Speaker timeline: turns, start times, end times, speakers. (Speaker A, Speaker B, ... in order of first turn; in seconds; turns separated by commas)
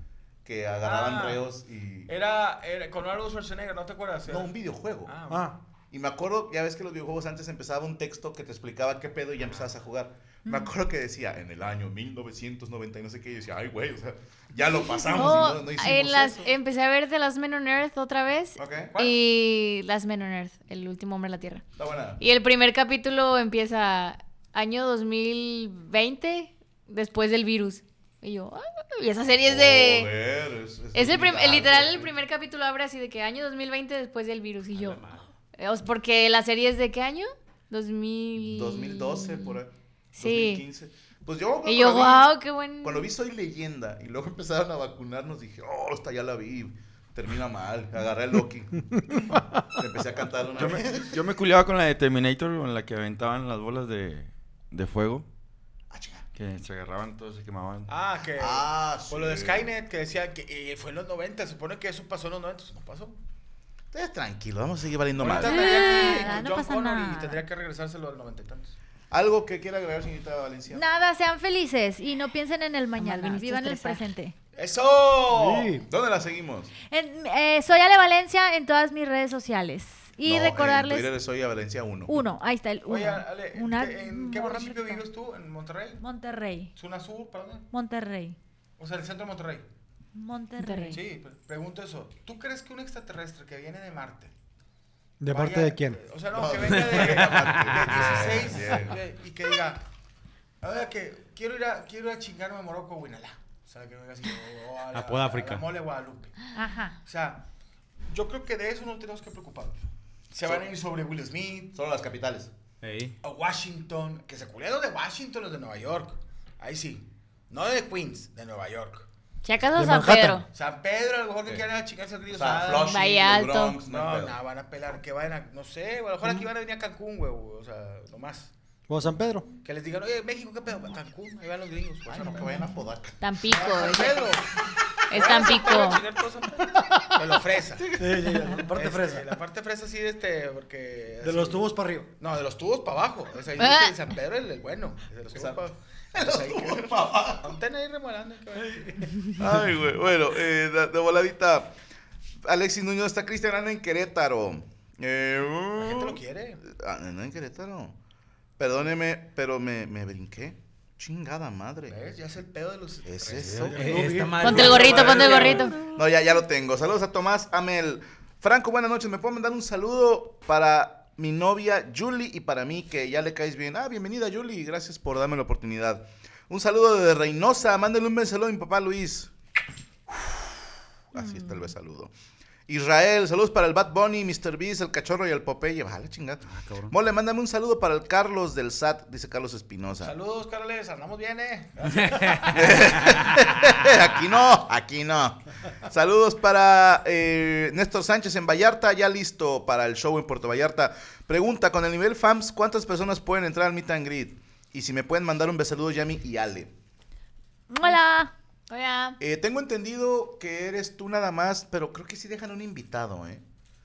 Speaker A: 0.5-2.1, Speaker B: 0.8-1.4, Speaker B: 2.1-4.5, Speaker A: 4.3-5.1, Speaker B: 5.1-5.5, Speaker C: 5.3-5.6, Speaker A: 5.9-16.5, Speaker D: 15.1-21.6, Speaker A: 18.6-18.9, Speaker A: 21.8-22.2, Speaker D: 22.2-30.1, Speaker A: 29.3-32.1, Speaker D: 30.9-39.6, Speaker E: 34.7-35.3, Speaker A: 38.4-48.9, Speaker D: 40.1-40.6, Speaker D: 41.6-43.1, Speaker C: 48.9-49.6, Speaker A: 49.8-51.2, Speaker F: 50.6-55.3, Speaker A: 55.9-56.3, Speaker F: 56.4-57.9, Speaker B: 57.9-63.2, Speaker A: 58.4-59.7, Speaker A: 63.9-66.1, Speaker B: 65.2-68.8, Speaker G: 65.5-67.4, Speaker A: 69.1-70.8, Speaker G: 70.7-74.3, Speaker D: 73.0-74.0, Speaker B: 74.5-75.8, Speaker C: 75.3-75.9, Speaker A: 75.9-76.7, Speaker G: 76.9-81.1, Speaker A: 80.2-82.2, Speaker G: 82.1-85.0, Speaker B: 82.9-86.0, Speaker G: 86.0-86.7, Speaker B: 86.8-87.7, Speaker G: 87.7-88.4, Speaker B: 88.8-89.7, Speaker G: 90.2-91.0, Speaker D: 90.6-91.0, Speaker B: 90.9-94.3, Speaker C: 95.2-96.0, Speaker B: 95.3-99.8, Speaker A: 96.3-99.0, Speaker E: 96.8-98.3, Speaker B: 100.6-106.3, Speaker E: 104.9-105.7, Speaker G: 106.5-107.0, Speaker B: 107.0-107.4, Speaker B: 108.1-111.7, Speaker A: 111.7-112.5, Speaker E: 112.8-113.2, Speaker B: 113.2-119.1, Speaker D: 119.4-120.5, Speaker C: 119.8-120.4, Speaker B: 120.5-123.0, Speaker A: 122.3-124.4, Speaker D: 122.9-123.8, Speaker B: 123.8-128.5, Speaker C: 128.9-129.5, Speaker B: 129.6-132.7, Speaker A: 132.1-133.2, Speaker D: 133.2-134.2, Speaker B: 133.5-134.5, Speaker D: 135.1-136.0, Speaker B: 135.1-141.7, Speaker C: 136.9-137.2, Speaker A: 137.8-138.3, Speaker C: 137.9-139.4, Speaker C: 141.2-142.1, Speaker B: 142.2-149.6, Speaker D: 143.6-143.9, Speaker A: 145.3-145.6, Speaker A: 146.1-147.6, Speaker A: 149.4-151.7, Speaker A: 152.4-158.0, Speaker B: 155.8-156.6, Speaker A: 158.6-161.9, Speaker B: 161.9-165.7, Speaker A: 163.1-163.8, Speaker C: 163.6-165.5, Speaker E: 163.8-165.7, Speaker D: 164.4-165.8, Speaker A: 164.6-179.3, Speaker A: 180.1-180.5, Speaker A: 181.1-182.1, Speaker A: 182.7-190.1, Speaker E: 186.5-186.9, Speaker B: 190.0-192.8, Speaker E: 191.9-193.2, Speaker A: 192.5-206.7, Speaker G: 207.7-208.3, Speaker D: 208.7-209.2, Speaker A: 209.2-213.4